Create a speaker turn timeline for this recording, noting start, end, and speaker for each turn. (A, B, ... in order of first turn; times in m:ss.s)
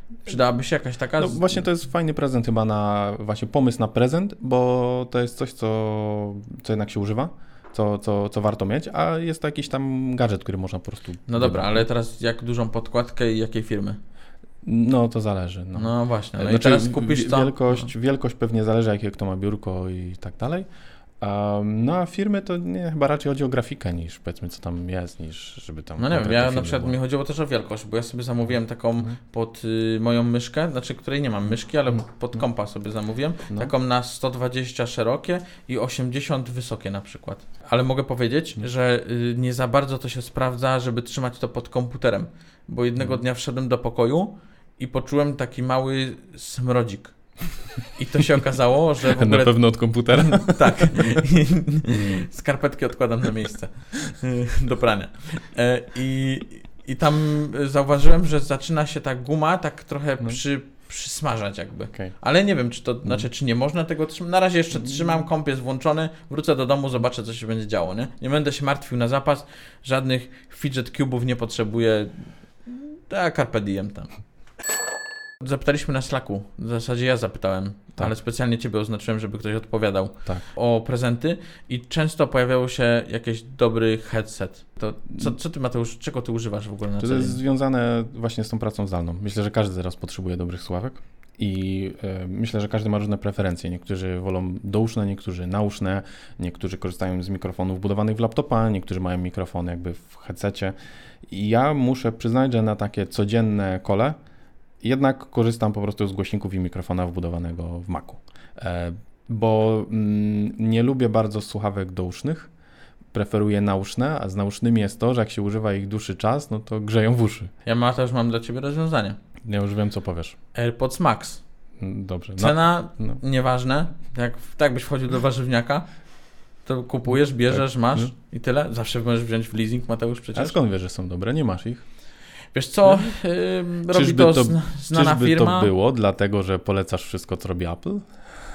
0:00.2-0:01.6 A
0:01.2-0:11.8 B
0:11.3-0:14.0 A
0:14.6-0:20.7 B
0:15.8-0:17.9 A
0:21.2-0:26.9 B
0:26.0-1:14.1 A
0:49.1-0:51.2 B
1:15.4-1:27.4 A
1:27.0-1:40.7 B
1:41.3-1:44.2 B
1:44.8-1:52.5 B
1:53.1-1:57.5 B
1:57.6-1:59.2 A
1:59.4-2:00.3 B
2:00.5-2:01.4 A
2:01.8-2:03.2 B
2:02.4-2:06.0 A
2:06.6-2:10.6 A
2:07.5-2:08.1 B
2:10.3-2:11.8 B
2:12.5-2:15.7 A
2:13.9-2:18.2 B